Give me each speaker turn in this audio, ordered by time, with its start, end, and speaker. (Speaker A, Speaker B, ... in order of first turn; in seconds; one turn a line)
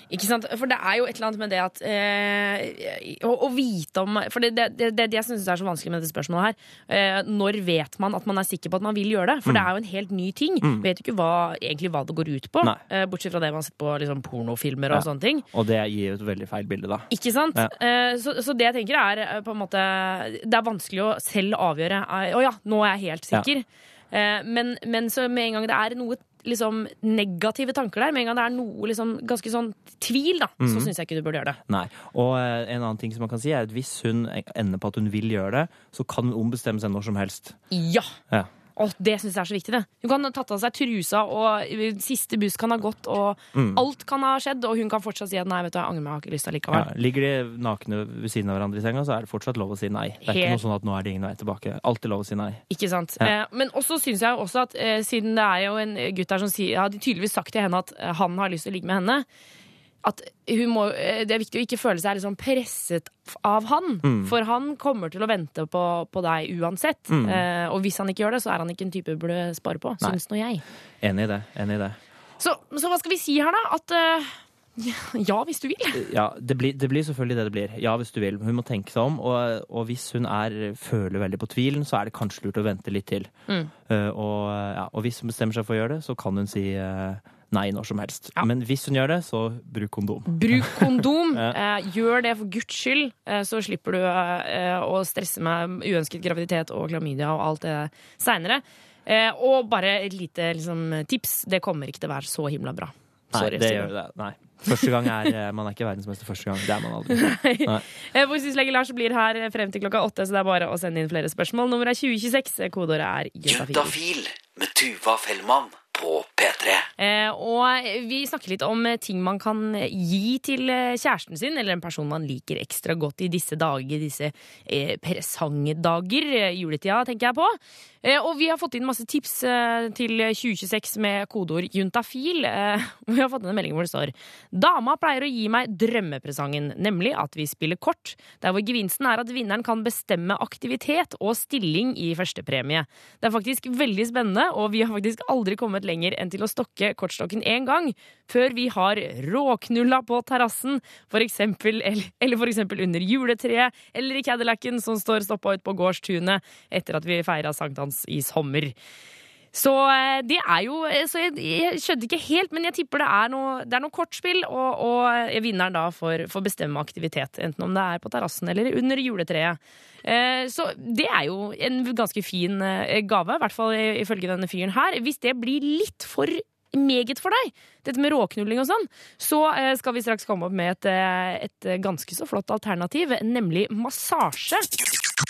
Speaker A: 0.1-15.4
Speaker B: 14.9-17.7
Speaker A: 17.1-31.6
Speaker B: 30.6-30.9
Speaker B: 31.7-37.6
Speaker A: 37.7-38.1
Speaker A: 38.8-46.9
Speaker B: 43.5-43.8
Speaker B: 46.7-52.6
Speaker A: 50.2-50.6
Speaker A: 52.7-59.2
Speaker A: 60.0-70.6
Speaker B: 64.0-64.3
Speaker B: 67.1-67.4
Speaker B: 71.0-72.0
Speaker A: 72.4-76.0
Speaker B: 75.9-83.3
Speaker B: 83.9-91.5
Speaker A: 90.3-103.9
Speaker B: 103.3-107.8
Speaker A: 107.2-113.9
Speaker C: 113.5-116.9
Speaker A: 117.0-158.7
Speaker A: 159.5-184.7